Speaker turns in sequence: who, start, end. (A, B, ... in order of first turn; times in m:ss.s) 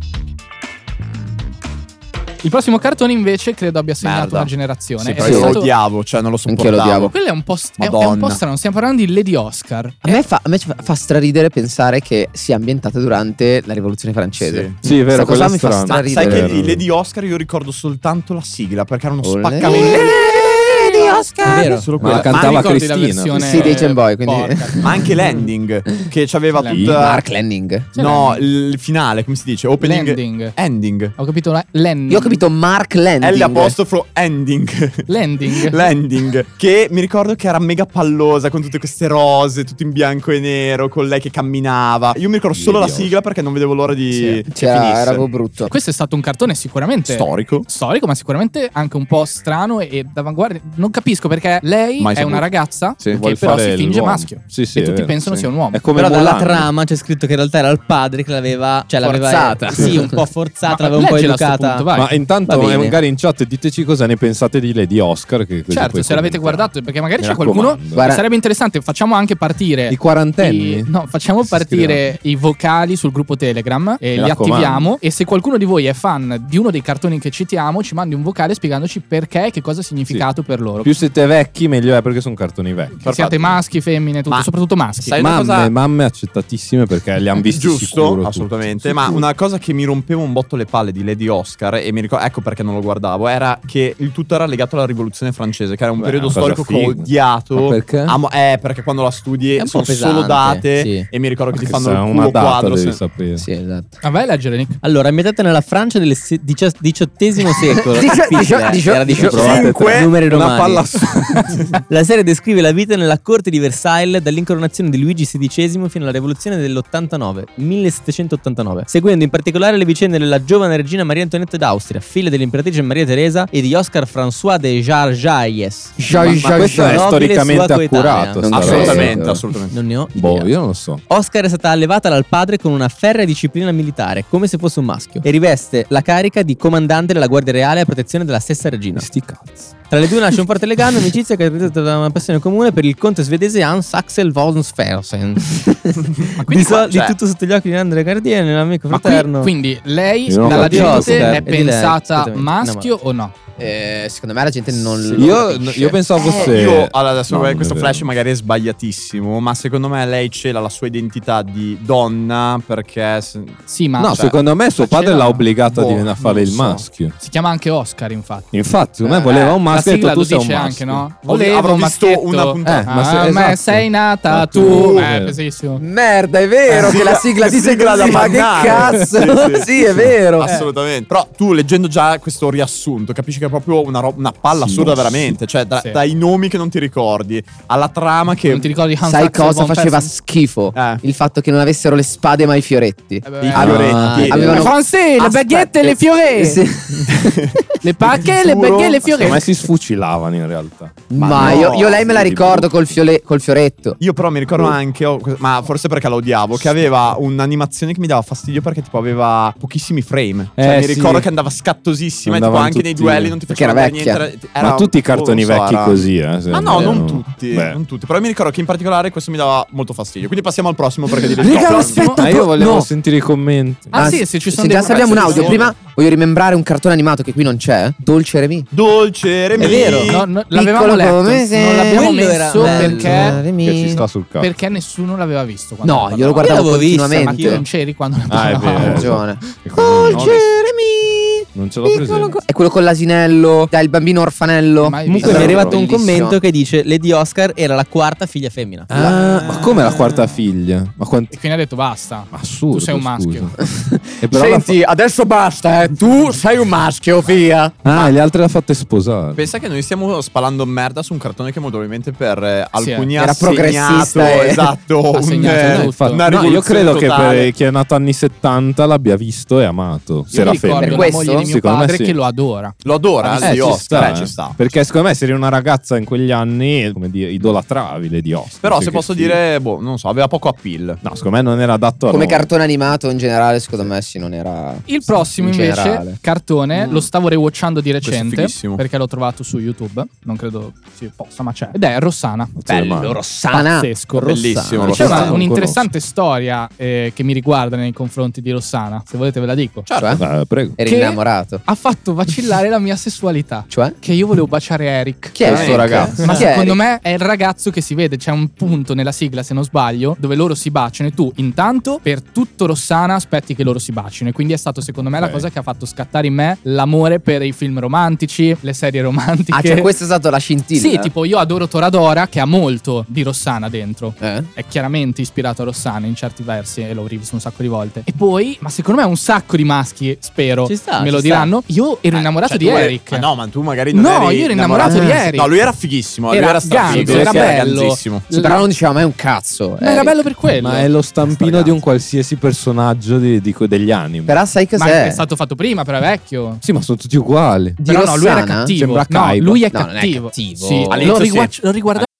0:02.4-0:05.7 A
0:04.0-0:07.1 B
0:05.2-0:05.6 C
0:06.5-0:07.1 C
0:07.1-0:10.2 A
0:07.8-0:08.4 B
0:10.0-0:16.5 C
0:14.4-0:14.8 B
0:14.8-0:16.8 D
0:15.9-0:20.8 B
0:19.2-0:21.7 C
0:19.6-0:20.1 A
0:21.4-0:22.1 E
0:21.5-0:22.7 B
0:22.0-0:23.8 D
0:22.3-0:24.8 A
0:23.4-0:25.0 C
0:24.8-0:27.2 B
0:26.6-0:26.9 A
0:26.7-0:27.0 D
0:27.0-0:27.9 C
0:27.9-0:28.4 A
0:28.0-0:31.1 B
0:29.8-0:30.5 A
0:31.2-0:32.4 A
0:32.1-0:33.8 C
0:33.2-0:45.2 B
0:35.1-0:35.9 A
0:42.5-0:43.1 D
0:44.1-0:44.4 A
0:44.5-0:45.7 C
0:45.6-0:55.8 A
0:47.1-0:47.6 B
0:52.0-0:52.4 B
0:53.1-0:56.7 D
0:55.9-1:01.9 E
0:59.0-1:00.1 C
0:59.7-1:00.0 D
0:59.8-1:02.1 A
1:01.9-1:08.1 D
1:02.4-1:03.0 E
1:05.7-1:20.9 A
1:07.9-1:08.2 C
1:09.9-1:10.9 D
1:11.4-1:12.0 D
1:14.1-1:14.9 D
1:20.8-1:23.0 D
1:23.0-1:25.2 A
1:23.0-1:23.6 B
1:25.0-1:25.7 B
1:25.2-1:29.2 D
1:27.4-1:43.0 B
1:36.0-1:38.2 D
1:39.6-1:41.1 E
1:41.5-1:43.4 D
1:43.4-1:43.9 C
1:44.0-1:44.8 A
1:44.8-1:50.9 E
1:47.9-1:49.6 C
1:49.2-1:51.5 D
1:49.2-1:50.2 B
1:51.9-2:09.0 E
2:06.0-2:07.1 C
2:06.1-2:09.1 D
2:08.4-2:09.4 C
2:08.5-2:09.7 B
2:09.7-2:10.5 E
2:10.1-2:11.0 D
2:11.1-2:19.1 E
2:18.9-2:19.9 D
2:19.9-2:29.5 E
2:26.2-2:27.2 B
2:26.4-2:26.8 A
2:28.9-2:33.3 A
2:30.3-2:31.5 D
2:30.4-2:32.9 E
2:33.6-2:36.6 C
2:35.1-2:38.1 D
2:36.2-2:43.6 B
2:43.7-2:44.3 A
2:44.0-2:47.1 D
2:44.8-2:45.5 A
2:45.6-2:46.8 B
2:47.2-2:48.5 A
2:48.5-2:51.1 D
2:49.3-2:55.8 A
2:51.2-2:52.9 B
2:52.6-2:55.4 D
2:54.6-2:55.0 B
2:55.8-3:00.5 C
2:56.7-2:59.7 B
3:00.4-3:08.7 B
3:00.4-3:00.7 A
3:04.6-3:05.4 D
3:08.5-3:10.1 A
3:09.0-3:17.6 C
3:10.7-3:11.0 B
3:13.2-3:13.7 A
3:13.4-3:14.7 B
3:13.6-3:14.5 D
3:13.9-3:14.4 E
3:14.4-3:16.6 A
3:17.8-3:19.4 A
3:18.3-3:19.4 B
3:19.2-3:22.7 D
3:21.1-3:24.0 C
3:21.2-3:22.1 B
3:24.0-3:42.1 B
3:26.6-3:26.8 D
3:30.6-3:31.3 D
3:32.2-3:33.4 D
3:33.5-3:34.2 C
3:34.6-3:37.8 D
3:41.3-3:42.9 C
3:41.4-3:42.3 A
3:42.2-3:44.2 D
3:43.9-3:45.7 A
3:43.9-3:48.7 C
3:44.8-3:45.7 B
3:48.7-3:50.2 B
3:49.6-3:50.0 D
3:49.6-3:54.0 C
3:49.6-3:50.0 E
3:50.1-3:53.4 A
3:51.8-3:53.3 E
3:53.4-3:54.5 D
3:54.4-3:59.2 A
3:55.8-3:57.6 C
3:56.4-3:57.6 E
3:58.3-4:00.4 D
3:58.8-4:06.4 C
4:00.1-4:00.4 B
4:01.5-4:02.4 D
4:04.8-4:05.6 A
4:05.1-4:05.8 D
4:05.2-4:09.1 E
4:08.9-4:11.3 D
4:08.9-4:09.9 C
4:09.3-4:10.0 B
4:11.3-4:13.5 A
4:12.3-4:13.6 D
4:13.6-4:18.0 C
4:14.2-4:14.8 D
4:17.8-4:19.4 D
4:19.4-4:27.5 B
4:22.8-4:23.1 A
4:23.2-4:24.7 C
4:25.1-4:26.2 A
4:25.5-4:32.2 D
4:30.3-4:34.1 A
4:30.8-4:31.5 C
4:32.8-4:34.6 B
4:33.4-4:39.4 D
4:38.6-4:41.0 B
4:41.0-4:42.5 D
4:42.1-4:46.2 C
4:44.9-4:52.5 A
4:46.7-4:47.0 B
4:48.0-4:48.8 B
4:52.6-4:53.2 D
4:52.8-4:55.4 C
4:53.5-4:59.9 A
4:54.2-4:55.4 B
4:54.9-4:55.9 D
4:59.9-5:00.2 B
4:59.9-5:00.2 C
5:00.2-5:00.8 D
5:00.8-5:01.6 C
5:00.8-5:19.9 A
5:03.7-5:04.0 C
5:05.3-5:06.8 C
5:05.4-5:06.1 D
5:05.4-5:06.2 B
5:15.2-5:15.5 D
5:19.5-5:21.1 C
5:20.7-5:33.2 A
5:24.2-5:24.5 C
5:30.6-5:31.5 E
5:32.1-5:38.2 B
5:33.9-5:35.6 A
5:34.8-5:35.2 C
5:36.3-5:38.6 A
5:36.9-5:37.6 C
5:38.3-5:40.2 C
5:39.8-5:40.9 A
5:40.6-5:44.3 D
5:41.2-5:41.8 C
5:44.3-5:45.2 C
5:44.8-5:46.6 A
5:46.6-5:47.8 D
5:47.8-5:48.7 C
5:47.8-5:52.0 A
5:48.7-5:49.6 D
5:49.7-5:51.2 C
5:50.9-5:52.0 B